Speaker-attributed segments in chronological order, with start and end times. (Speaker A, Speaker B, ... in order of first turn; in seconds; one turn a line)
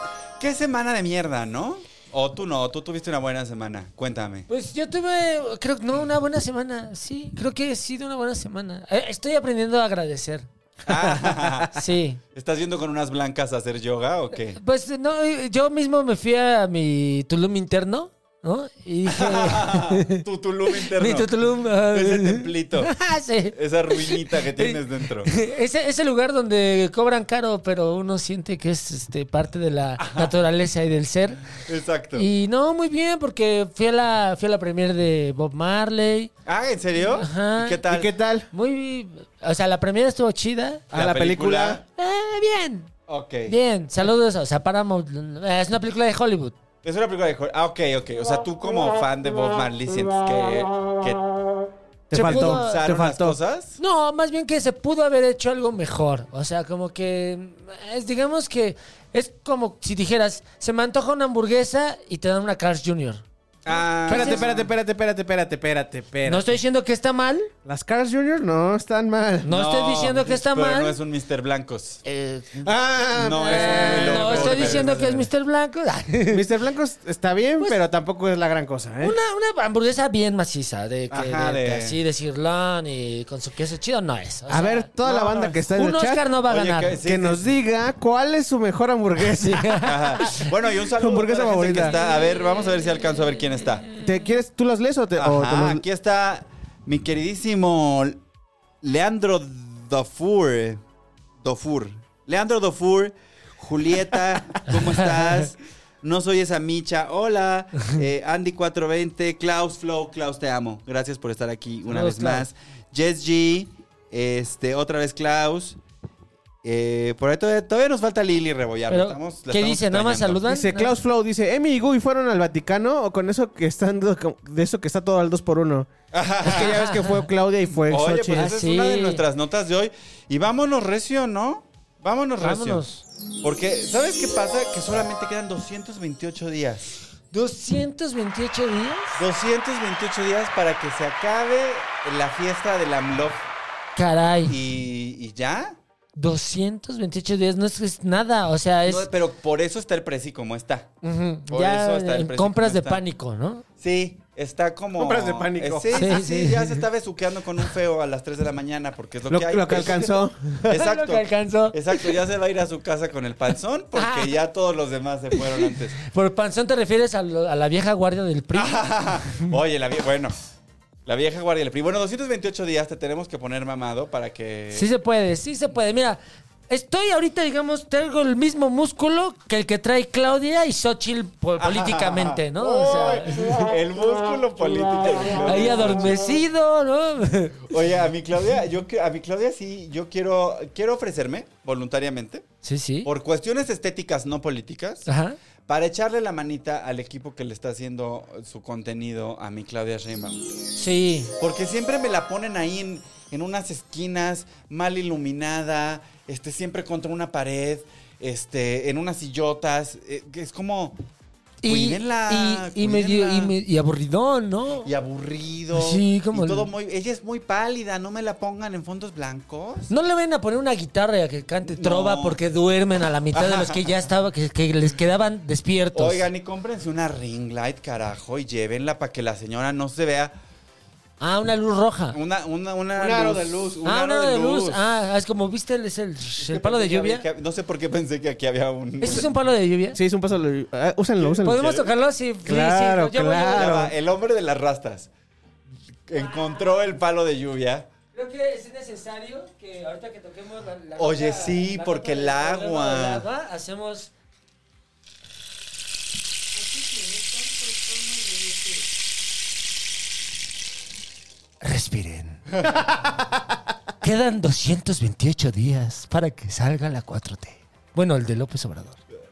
Speaker A: 0.4-4.5
Speaker B: 4.5-10.5
Speaker A: 10.9-14.6
Speaker B: 11.6-12.2
Speaker B: 14.6-31.4
Speaker A: 19.1-22.9
Speaker A: 23.5-25.3
Speaker A: 30.0-30.3
Speaker A: 31.5-32.3
Speaker B: 32.1-36.3
Speaker A: 36.5-38.1
Speaker B: 37.2-37.8
Speaker C: 37.9-38.5
Speaker B: 38.5-40.9
Speaker C: 40.9-41.8
Speaker A: 40.9-41.8
Speaker B: 42.0-42.9
Speaker A: 43.1-43.5
Speaker B: 43.5-46.5
Speaker A: 46.8-51.2
Speaker C: 52.1-53.4
Speaker B: 52.1-52.8
Speaker A: 52.1-53.8
Speaker B: 53.8-63.2
Speaker A: 63.6-64.7
Speaker B: 64.0-64.4
Speaker C: 64.1-66.6
Speaker B: 66.2-67.5
Speaker C: 67.6-69.5
Speaker B: 69.4-71.0
Speaker A: 69.5-72.0
Speaker B: 72.0-72.7
Speaker C: 72.6-75.2
Speaker A: 73.2-75.2
Speaker B: 73.4-76.5
Speaker C: 76.3-79.2
Speaker B: 79.0-87.0
Speaker A: 81.1-82.0
Speaker C: 84.5-86.3
Speaker A: 86.5-87.5
Speaker C: 87.0-89.9
Speaker B: 89.4-90.5
Speaker A: 89.8-93.9
Speaker C: 90.9-92.0
Speaker C: 94.0-95.8
Speaker A: 95.2-98.2
Speaker A: 98.8-100.8
Speaker A: 101.4-115.8
Speaker B: 104.7-105.0
Speaker B: 111.9-112.5
Speaker A: 116.6-120.5
Speaker B: 118.9-120.9
Speaker C: 120.5-125.9
Speaker A: 126.1-126.8
Speaker C: 126.4-128.5
Speaker B: 126.5-127.2
Speaker A: 127.9-132.8
Speaker B: 128.3-129.2
Speaker B: 132.4-133.0
Speaker A: 133.4-137.0
Speaker B: 137.3-139.2
Speaker A: 139.2-143.4
Speaker B: 143.9-144.6
Speaker A: 144.5-145.8
Speaker B: 146.2-149.1
Speaker A: 148.8-150.9
Speaker B: 151.0-153.6
Speaker A: 151.5-153.0
Speaker A: 153.8-166.0
Speaker C: 155.0-156.1
Speaker B: 155.9-156.8
Speaker C: 159.3-160.7
Speaker B: 160.6-162.1
Speaker B: 163.9-164.3
Speaker B: 165.6-168.8
Speaker A: 168.5-170.3
Speaker A: 171.1-174.9
Speaker B: 174.7-183.6
Speaker A: 181.6-186.3
Speaker B: 185.4-187.7
Speaker A: 187.7-192.5
Speaker B: 192.6-193.1
Speaker A: 193.0-195.1
Speaker B: 195.1-195.4
Speaker A: 195.7-200.5
Speaker B: 200.8-201.3
Speaker A: 201.4-211.0
Speaker B: 211.6-214.9
Speaker A: 211.7-213.5
Speaker A: 214.8-219.9
Speaker B: 215.7-216.7
Speaker B: 219.9-226.3
Speaker A: 221.6-222.4
Speaker A: 223.3-223.8
Speaker A: 225.9-230.3
Speaker B: 231.2-232.2
Speaker A: 232.1-234.8
Speaker C: 232.9-233.8
Speaker B: 233.8-237.2
Speaker A: 236.4-239.3
Speaker B: 239.0-240.0
Speaker C: 239.9-241.7
Speaker A: 241.2-241.9
Speaker B: 241.4-243.7
Speaker C: 242.4-243.9
Speaker A: 243.5-245.1
Speaker A: 246.1-247.9
Speaker B: 246.1-246.6
Speaker B: 248.1-254.1
Speaker A: 251.0-253.2
Speaker B: 256.5-258.9
Speaker B: 261.6-262.4
Speaker B: 264.0-269.0